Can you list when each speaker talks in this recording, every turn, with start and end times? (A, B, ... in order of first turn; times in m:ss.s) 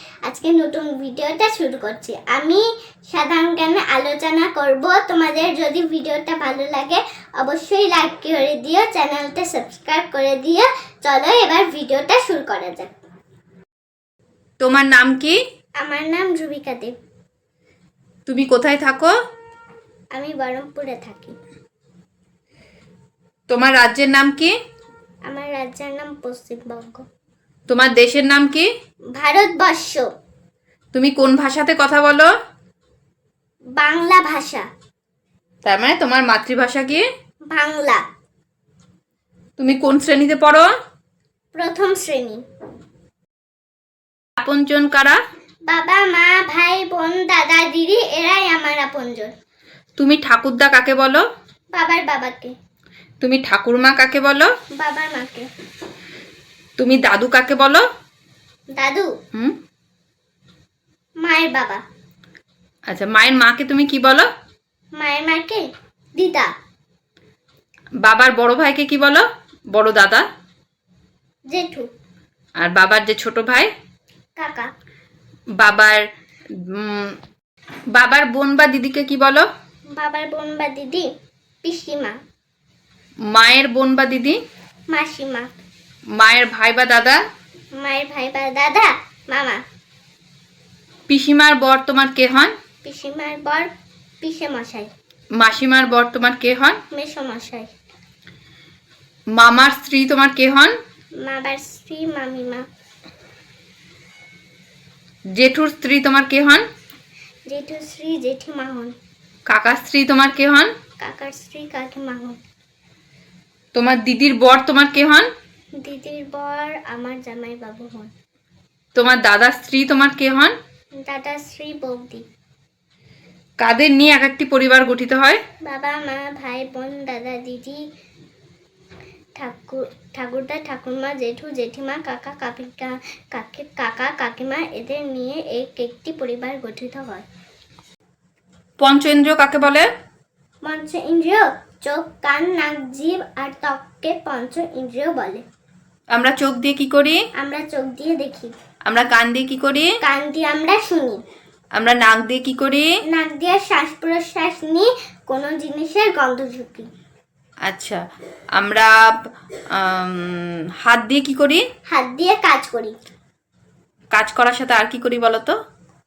0:00.2-0:12.9 A
0:14.6-0:15.4 B
0:15.8-0:16.9 A
0:18.3-0:19.1 B
0:20.1-0:21.3 A
0:23.5-0:24.5 B
0:25.3-0:27.0 A
0:27.7-0:28.7 B
0:29.1-0:30.1 A
0:30.9-0:32.3 B
0:33.8-0:34.6 A
0:35.6-0:37.0 B
0:37.5-0:38.0 A
0:39.6-0:40.7 B
0:41.5-0:42.4 A
0:44.4-0:45.2 B
0:45.7-0:49.3 A
0:50.0-0:51.2 B
0:51.7-0:52.5 A
0:53.2-0:54.5 B
0:54.8-0:55.5 A
0:56.8-0:57.8 B
0:58.7-0:59.1 A
1:01.2-1:01.8 A
1:02.9-1:04.3 B
1:05.0-1:06.5 A
1:08.0-1:10.2 B
1:11.5-1:11.9 A
1:12.6-1:13.7 B
1:14.4-1:14.7 A
1:15.6-1:16.0 B
1:16.6-1:17.2 B
1:17.9-1:19.5 B
1:19.9-1:21.1 A
1:21.6-1:22.2 A
1:23.3-1:24.4 B
1:24.9-1:25.5 A
1:26.1-1:27.2 B
1:27.8-1:29.6 A
1:31.1-1:32.5 B
1:32.8-1:33.7 A
1:34.2-1:34.9 A
1:35.4-1:36.8 B
1:36.9-1:37.7 A
1:39.3-1:40.7 B
1:41.2-1:42.6 A
1:45.3-1:46.6 B
1:47.5-1:48.9 A
1:49.5-1:50.7 B
1:51.0-1:52.4 A
1:53.7-1:55.3 B
1:55.8-1:58.1 A
1:58.9-2:00.5 B
2:01.0-2:02.2 A
2:03.6-2:05.4 B
2:05.6-2:07.8 A
2:09.4-2:17.2 A
2:18.8-2:19.9 B
2:20.6-2:25.4 A
2:26.1-2:27.2 B
2:27.4-2:28.5 A
2:28.8-2:30.0 B
2:30.0-2:31.2 A
2:31.7-2:32.9 B
2:33.1-2:36.9 A
2:37.6-2:38.0 B
2:38.5-2:38.9 B
2:39.7-2:41.6 B
2:41.9-2:42.9 A
2:44.1-2:45.5 B